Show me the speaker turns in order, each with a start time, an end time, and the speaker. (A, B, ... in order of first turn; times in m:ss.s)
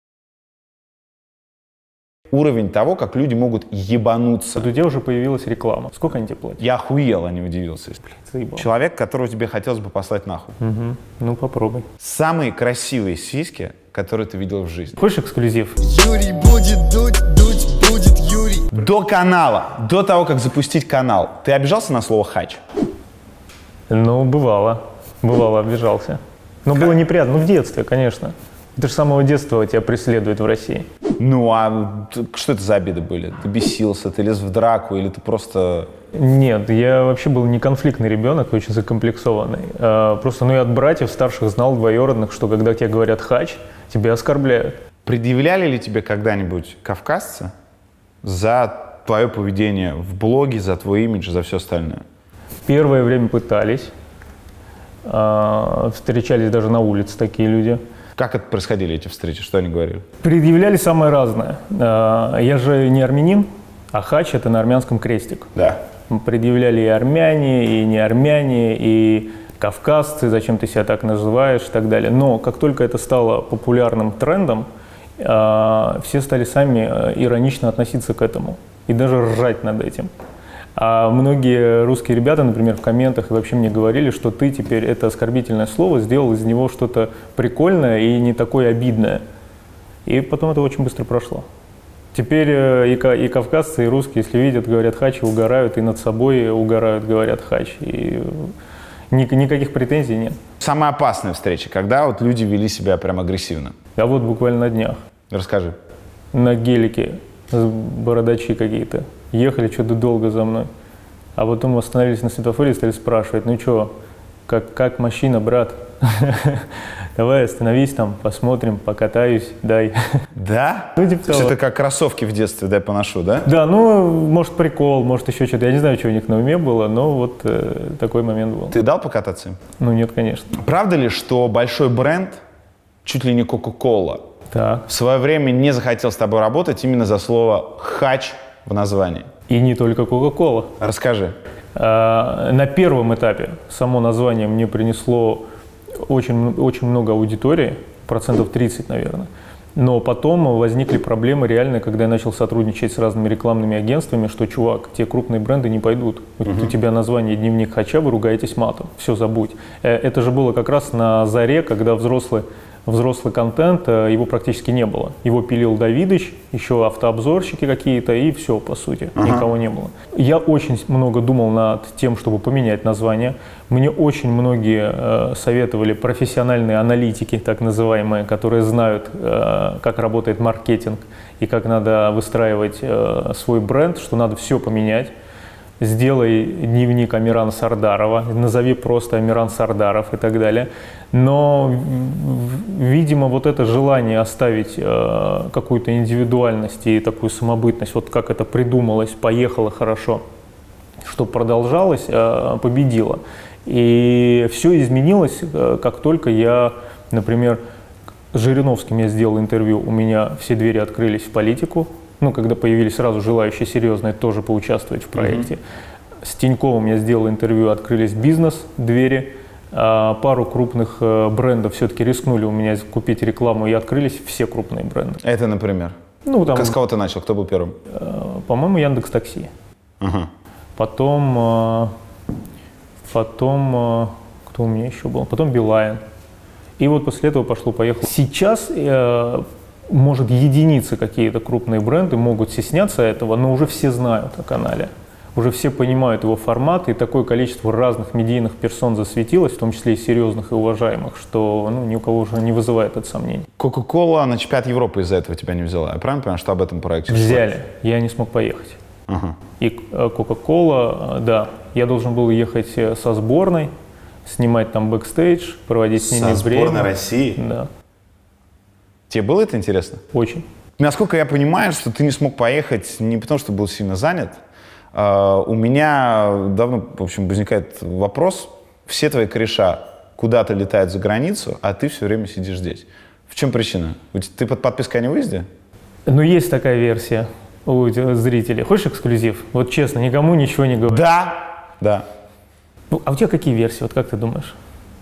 0:02.3-0:04.7 A
0:04.6-0:06.6 B
0:06.6-0:08.0 A
0:08.1-0:08.7 B
0:08.6-0:10.6 A
0:10.6-0:11.9 B
0:12.0-0:15.0 A
0:15.0-0:15.8 B
0:15.8-0:18.7 C
0:18.7-0:22.6 A
0:23.9-0:30.9 B
0:31.2-0:35.9 A
0:36.1-0:44.8 B
0:45.0-0:47.5 A
0:48.2-0:52.0 A
0:52.6-0:53.9 B
0:55.0-0:57.8 B
0:58.2-1:00.0 A
1:00.2-1:05.5 B
1:06.1-1:14.7 B
1:15.2-1:20.1 B
1:20.8-1:29.2 B
1:30.0-1:31.4 B
1:32.1-1:38.5 B
1:39.1-1:40.4 B
1:40.6-1:43.8 A
1:44.0-1:45.0 B
1:45.3-1:45.8 A
1:46.3-1:50.7 B
1:51.4-1:53.9 B
1:54.5-2:00.0 B
2:00.3-2:03.5 A
2:01.0-2:01.5 B
2:03.4-2:08.8 B
2:08.7-2:09.6 A
2:09.8-2:10.5 B
2:10.5-2:12.4 A
2:13.0-2:14.2 A
2:14.5-2:14.9 B
2:14.9-2:19.3 A
2:19.5-2:20.7 B
2:20.8-2:21.4 A
2:21.7-2:25.4 B
2:26.0-3:05.1 B
2:36.4-2:36.7 A
2:49.2-2:49.5 A
3:05.8-3:20.2 B
3:21.0-3:27.6 B
3:28.3-3:35.6 B
3:35.1-3:35.5 A
3:36.2-3:45.2 B
3:45.2-3:46.0 A
3:46.2-3:46.8 B
3:46.5-3:47.8 A
3:47.9-3:49.5 B
3:50.0-3:50.3 A
3:50.8-3:51.9 B
3:53.1-3:56.0 B
3:56.8-4:13.5 B
4:13.6-4:17.5 A
4:17.1-4:18.8 B
4:19.1-4:19.4 A
4:19.6-4:23.7 B
4:24.2-4:27.7 B
4:26.0-4:27.4 A
4:29.1-4:30.0 A
4:30.1-4:30.4 B
4:30.8-4:34.4 A
4:34.9-4:45.5 A
4:46.1-4:51.0 B
4:50.9-4:52.1 A
4:52.9-4:54.6 B